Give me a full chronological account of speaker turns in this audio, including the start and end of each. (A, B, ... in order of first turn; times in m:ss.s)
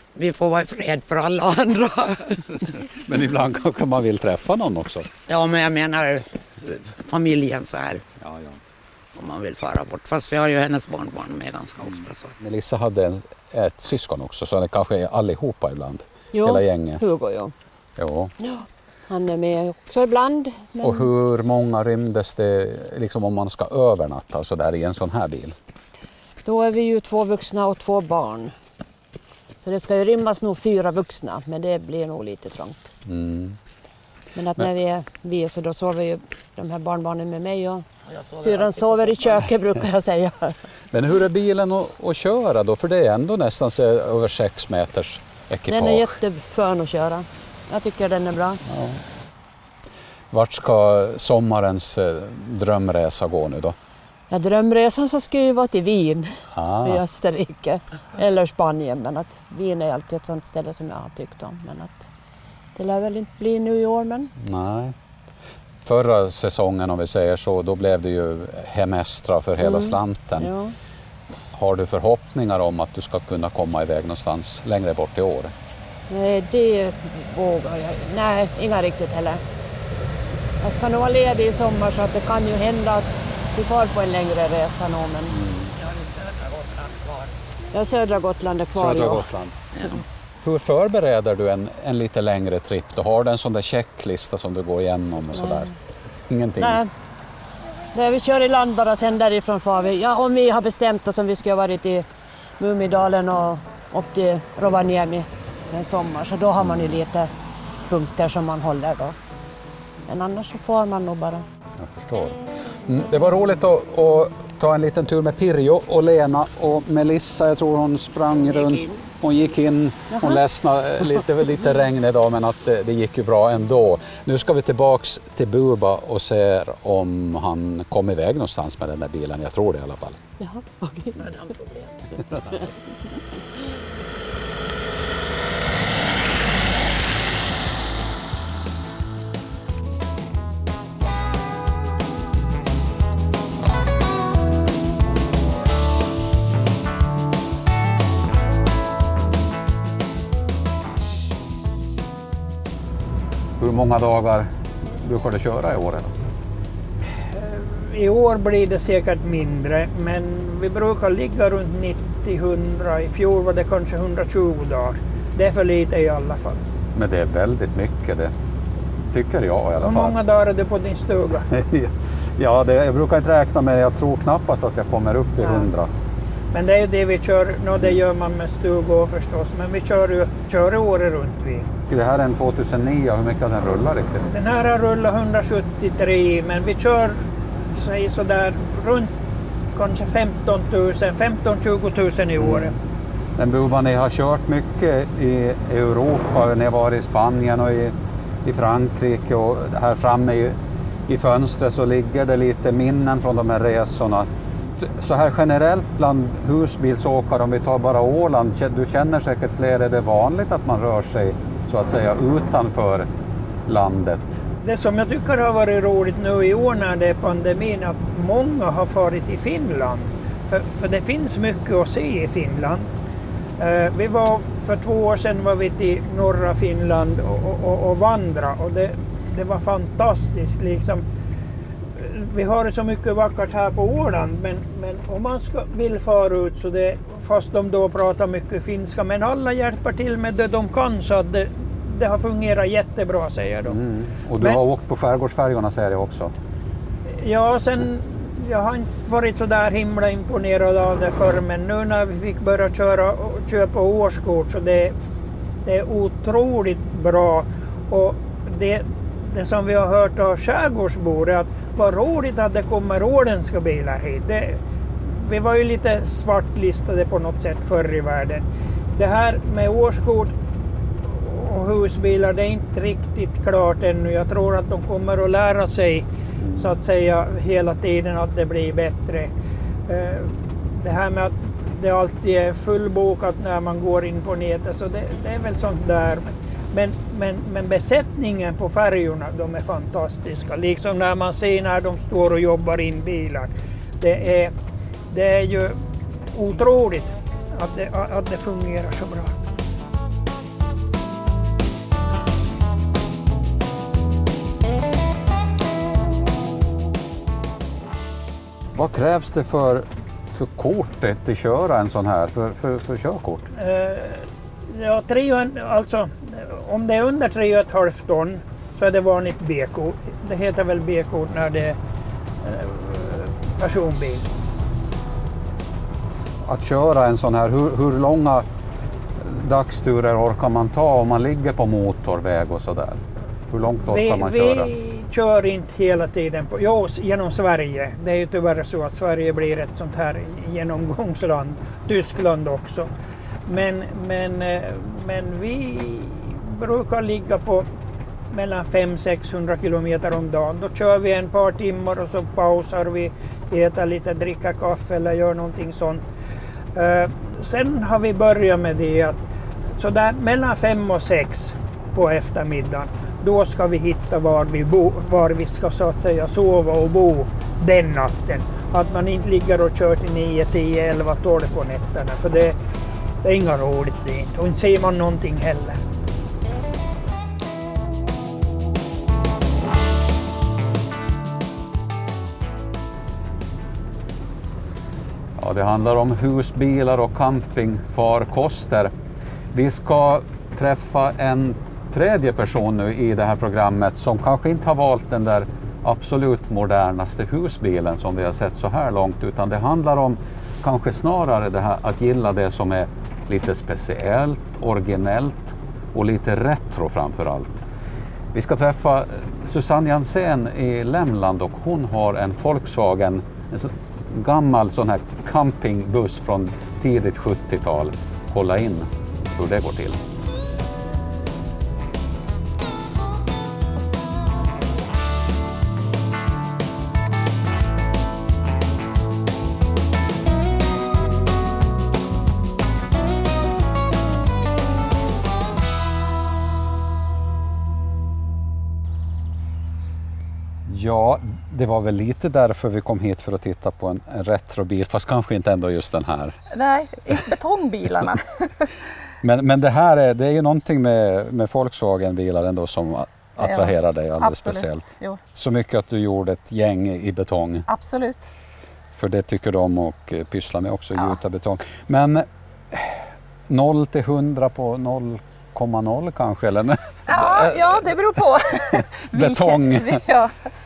0:00.2-0:02.9 A
0:03.0-0:05.1 B
0:05.3-0:08.0 A
0:08.2-0:08.6 B
0:09.2-0:12.4 A
0:12.4-0:17.0 B
0:16.3-0:17.5 C
0:18.0-0:18.3 B
0:18.4-0:21.1 C
0:20.8-0:25.6 B
0:26.4-0:28.5 C
0:29.6-0:32.9 C
0:33.1-0:33.6 B
0:34.4-0:40.6 C
0:38.1-0:39.5 A
0:40.9-0:46.2 B
0:45.7-0:48.6 C
0:48.7-0:49.0 B
0:50.3-0:53.8 B
0:54.3-1:02.1 C
0:56.5-0:57.0 B
1:02.8-1:04.3 C
1:04.4-1:05.0 B
1:05.8-1:10.5 B
1:09.6-1:10.7 C
1:11.5-1:15.5 B
1:16.1-1:19.4 C
1:20.6-1:25.4 C
1:25.3-1:25.7 B
1:25.8-1:27.3 A
1:27.7-1:29.3 C
1:28.7-1:29.9 B
1:29.8-1:30.0 A
1:30.4-1:35.7 B
1:36.3-1:36.8 B
1:36.6-1:36.9 C
1:37.9-1:42.1 C
1:42.6-1:47.3 C
1:46.6-1:46.9 B
1:47.9-1:49.2 C
1:50.1-1:51.5 C
1:51.8-2:10.2 B
2:00.1-2:00.4 C
2:10.4-2:11.3 C
2:11.2-2:11.9 A
2:33.6-2:34.5 B
2:35.0-2:36.2 B
2:37.2-2:46.6 D
2:47.0-2:48.3 B
2:49.1-2:50.2 B
2:49.8-2:51.5 D
2:51.5-2:55.9 B
2:56.5-3:01.7 D
3:01.9-3:04.3 B
3:04.3-3:09.1 D
3:09.7-3:12.8 D
3:12.4-3:12.8 B
3:13.4-3:20.6 B
3:21.1-3:33.1 B
3:33.7-3:34.4 B
3:34.6-3:42.9 D
3:43.6-3:51.0 D
3:52.0-4:03.8 D
4:03.7-4:06.3 B
4:07.1-4:15.0 D
4:15.6-4:30.3 D
4:31.0-4:39.3 D
4:36.4-4:36.7 B
4:39.9-4:54.5 D
4:55.1-4:55.8 D
4:56.3-4:59.4 D
5:08.8-5:13.5 B
5:13.5-5:21.8 D
5:22.4-5:24.3 D
5:26.4-5:28.5 B
5:29.2-5:34.7 B
5:33.8-5:42.9 D
5:43.5-5:47.7 D
5:48.3-5:56.0 D
5:56.8-5:59.2 D
5:59.8-6:12.6 D
6:13.2-6:15.8 D
6:25.4-6:28.9 B
6:29.5-6:47.7 B
6:48.3-7:00.0 B
7:20.7-7:26.4 B
7:26.5-7:28.7 E
7:29.2-7:37.7 B
7:33.4-7:35.2 E
7:37.7-7:38.3 E
7:38.9-7:48.0 B
7:47.1-7:50.3 E
7:48.7-7:50.0 B